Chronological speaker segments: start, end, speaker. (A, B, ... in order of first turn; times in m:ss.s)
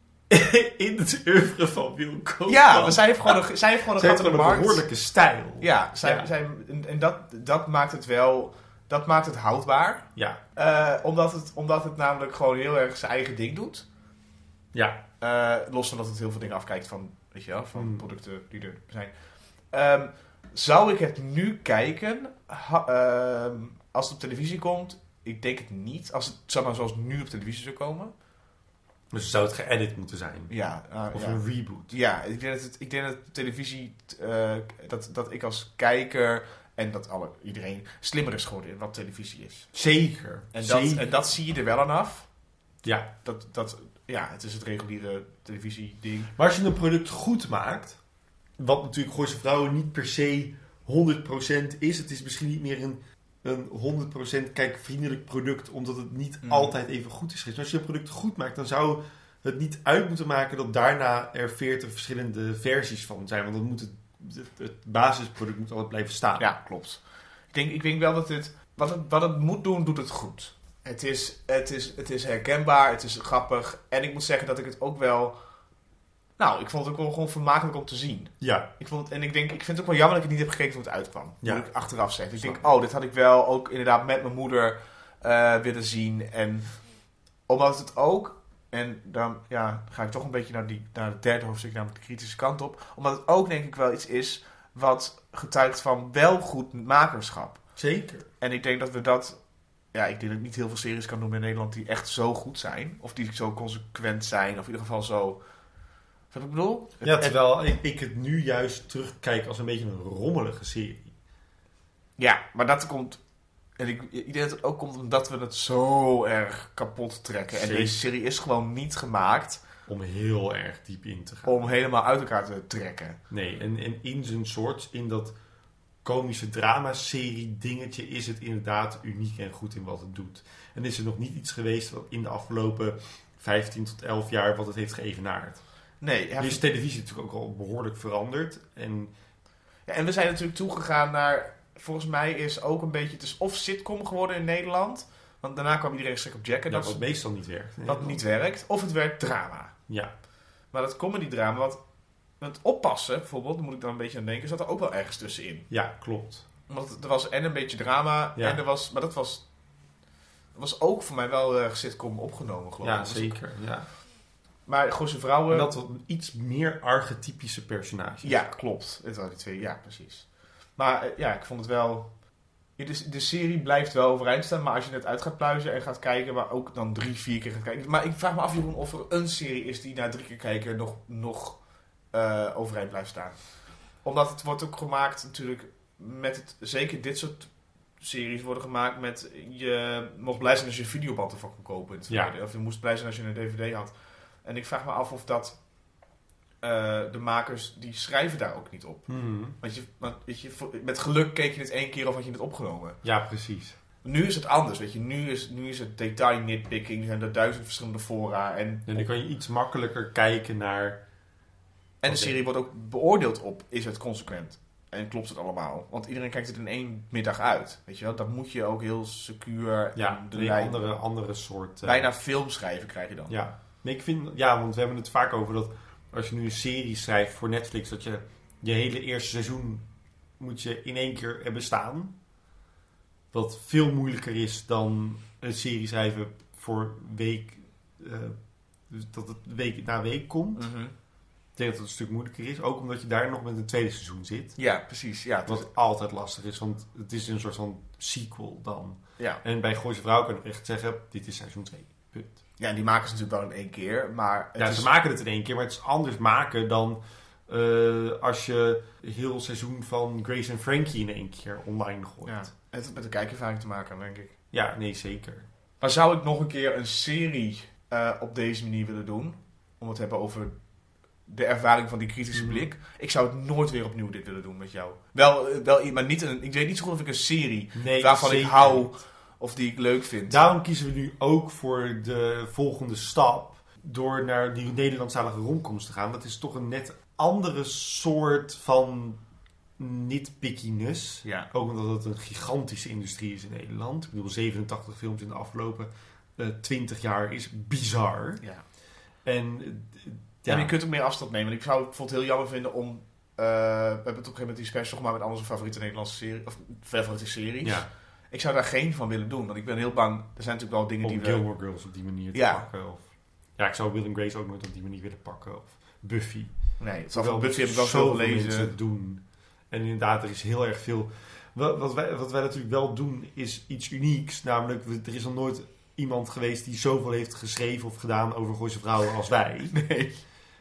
0:00.3-0:03.4 A
0:02.5-0:04.8 B
0:04.0-0:06.3 A
0:05.6-0:13.9 B
0:10.2-0:10.4 A
0:14.7-0:15.0 A
0:15.2-0:19.1 B
0:17.8-0:18.1 A
0:19.7-0:28.1 B
0:29.1-0:30.5 A
0:30.5-0:39.7 B
0:31.1-0:31.9 A
0:39.7-0:41.0 A
0:40.5-0:42.3 B
0:42.8-0:43.1 A
0:43.2-0:46.3 B
0:46.4-0:48.0 A
0:48.6-1:06.5 A
0:56.4-0:56.7 B
1:06.4-1:07.0 B
1:07.5-1:15.4 B
1:16.4-1:26.7 B
1:18.4-1:18.7 A
1:22.4-1:22.6 A
1:27.5-1:37.6 B
1:37.8-1:38.3 A
1:38.4-1:39.4 B
1:39.9-1:45.4 B
1:46.3-1:47.3 B
1:47.0-1:51.1 A
1:52.2-1:53.2 B
1:53.8-1:59.6 B
1:57.5-1:58.0 A
1:59.9-2:01.7 A
2:01.5-2:03.2 B
2:03.3-2:05.4 A
2:06.0-2:15.6 A
2:16.0-2:16.6 B
2:16.4-2:19.1 A
2:19.9-2:27.0 B
2:26.7-2:28.2 A
2:27.9-2:29.8 B
2:30.7-2:31.8 B
2:32.4-2:35.7 B
2:35.7-2:36.4 A
2:36.7-2:39.4 B
2:40.6-2:43.4 B
2:42.8-2:43.9 A
2:44.7-2:45.7 B
2:45.5-2:48.5 A
2:48.2-2:52.2 B
2:52.8-3:01.6 B
3:02.1-3:13.9 B
3:14.4-3:15.6 B
3:16.6-3:19.1 B
3:19.1-3:19.6 A
3:19.6-3:23.0 B
3:23.0-3:23.8 A
3:24.0-3:29.0 B
3:28.9-3:31.0 A
3:32.0-3:40.8 B
3:32.0-3:32.4 A
3:40.0-3:42.1 A
3:41.8-3:43.3 B
3:43.3-3:49.9 A
3:50.4-3:52.2 A
3:53.3-3:58.4 A
3:58.9-4:00.7 A
4:00.6-4:00.9 B
4:01.6-4:04.6 A
4:04.6-4:05.7 B
4:05.5-4:12.4 A
4:12.6-4:14.9 B
4:14.6-4:22.5 A
4:22.2-4:24.4 B
4:24.5-4:25.5 A
4:25.8-4:30.5 B
4:31.3-4:40.4 B
4:32.3-4:32.6 A
4:37.8-4:38.9 A
4:40.3-4:49.2 A
4:49.8-4:58.4 A
4:51.2-4:51.5 B
4:59.2-5:00.7 A
5:00.5-5:11.4 B
5:07.6-5:07.9 A
5:11.0-5:16.6 A
5:12.3-5:12.7 B
5:16.8-5:18.7 B
5:17.1-5:29.8 A
5:29.7-5:30.2 B